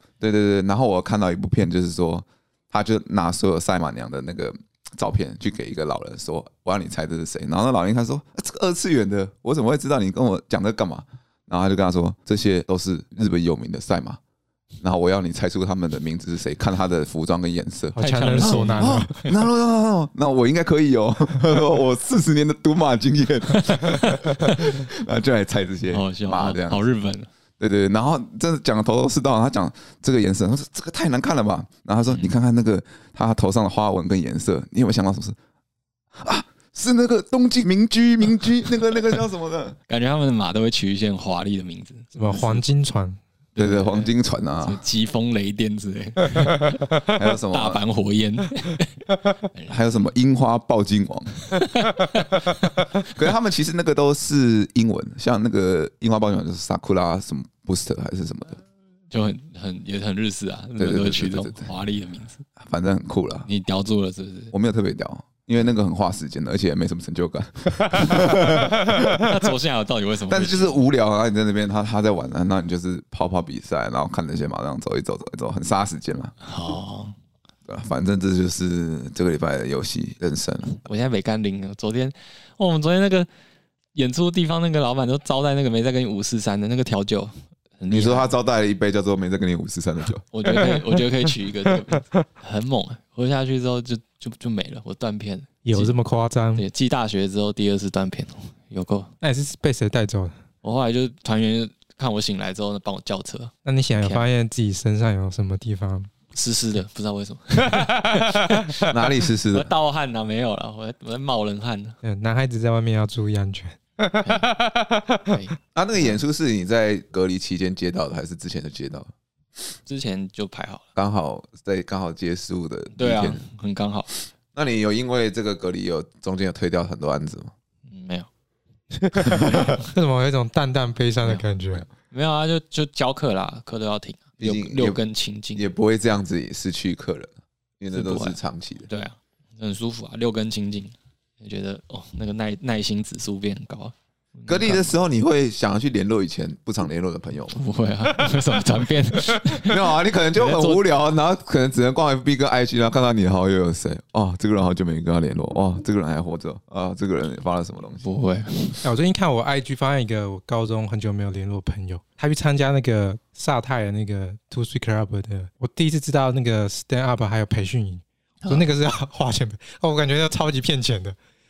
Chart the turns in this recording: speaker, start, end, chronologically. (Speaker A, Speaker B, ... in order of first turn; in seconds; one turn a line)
Speaker A: 0.2-14.2
Speaker A: 14.8-26.8
Speaker B: 17.9-19.1
Speaker C: 18.0-19.4
Speaker C: 23.7-24.8
Speaker C: 25.9-27.3
Speaker A: 27.6-35.4
Speaker A: 36.1-39.8
Speaker C: 39.9-42.6
Speaker B: 42.1-43.2
Speaker C: 43.5-49.8
Speaker A: 43.6-44.8
Speaker A: 47.1-47.8
Speaker A: 49.7-51.5
Speaker C: 51.6-52.5
Speaker A: 53.0-58.6
Speaker C: 59.1-62.5
Speaker A: 60.8-61.7
Speaker A: 62.6-63.5
Speaker C: 63.5-64.5
Speaker A: 64.5-69.5
Speaker C: 68.1-70.8
Speaker A: 70.3-76.3
Speaker C: 76.4-77.1
Speaker A: 77.7-80.8
Speaker C: 80.8-83.3
Speaker C: 83.9-88.3
Speaker A: 87.9-90.2
Speaker C: 90.3-95.9
Speaker B: 95.6-96.6
Speaker C: 96.5-99.1
Speaker B: 99.2-100.3
Speaker C: 100.6-104.2
Speaker B: 103.6-106.1
Speaker C: 106.3-112.0
Speaker B: 107.6-108.8
Speaker A: 108.9-109.7
Speaker B: 112.0-115.4
Speaker C: 114.2-114.5
Speaker C: 115.3-116.2
Speaker A: 115.7-119.1
Speaker C: 119.8-120.8
Speaker A: 121.0-123.4
Speaker C: 123.0-124.2
Speaker A: 124.5-127.5
Speaker C: 127.9-128.3
Speaker B: 129.0-131.8
Speaker C: 132.1-135.7
Speaker A: 134.4-135.0
Speaker A: 135.5-138.9
Speaker C: 137.9-144.9
Speaker A: 144.5-147.6
Speaker C: 147.5-150.8
Speaker A: 149.6-158.1
Speaker C: 158.0-158.8
Speaker B: 158.8-171.2